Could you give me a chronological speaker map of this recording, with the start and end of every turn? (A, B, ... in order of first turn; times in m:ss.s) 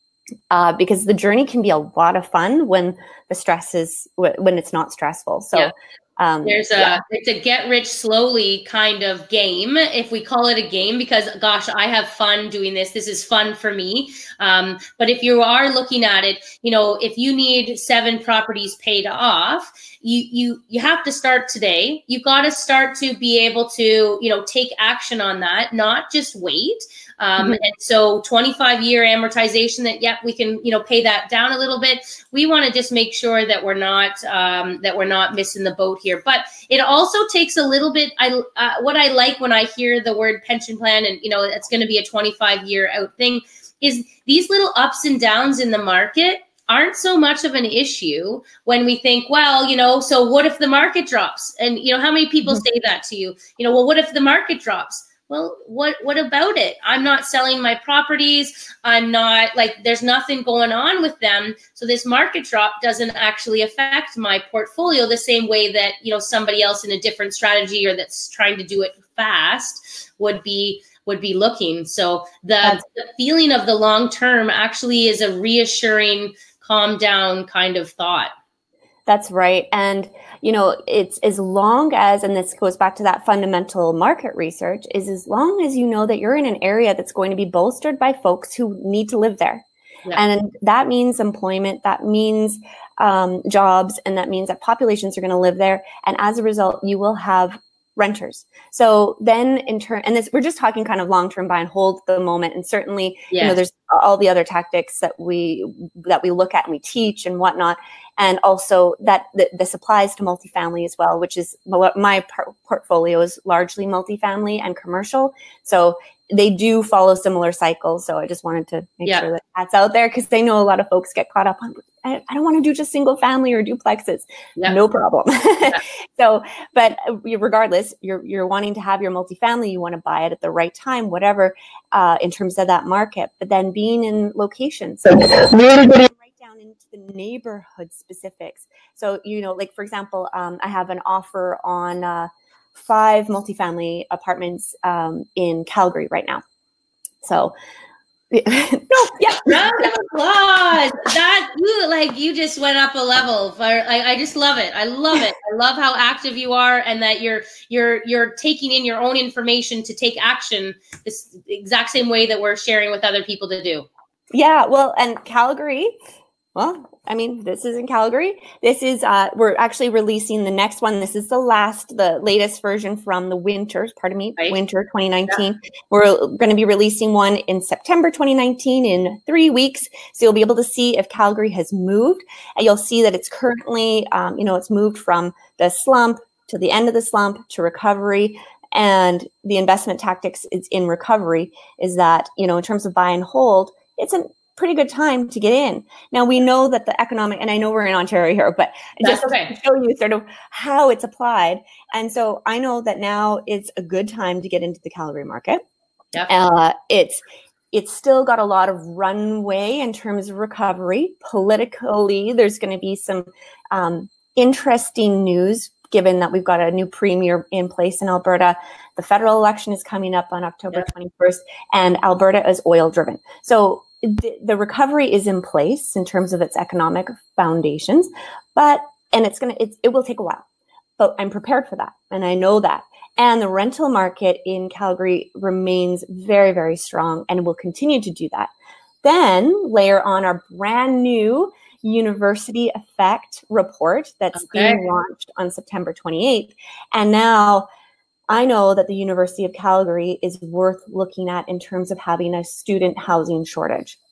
0:00.5-0:07.0 A
0:06.4-1:18.3 B
1:19.1-2:26.4 A
1:43.3-1:43.6 B
2:27.2-2:27.5 A
2:28.3-2:29.9 A
2:29.4-2:43.9 B
2:44.3-2:46.0 A
2:46.5-3:25.6 A
3:19.0-3:19.6 B
3:26.3-3:27.2 A
3:27.7-3:50.4 A
3:51.0-3:58.5 A
3:59.0-4:07.7 A
4:04.3-4:04.8 B
4:08.3-4:14.0 A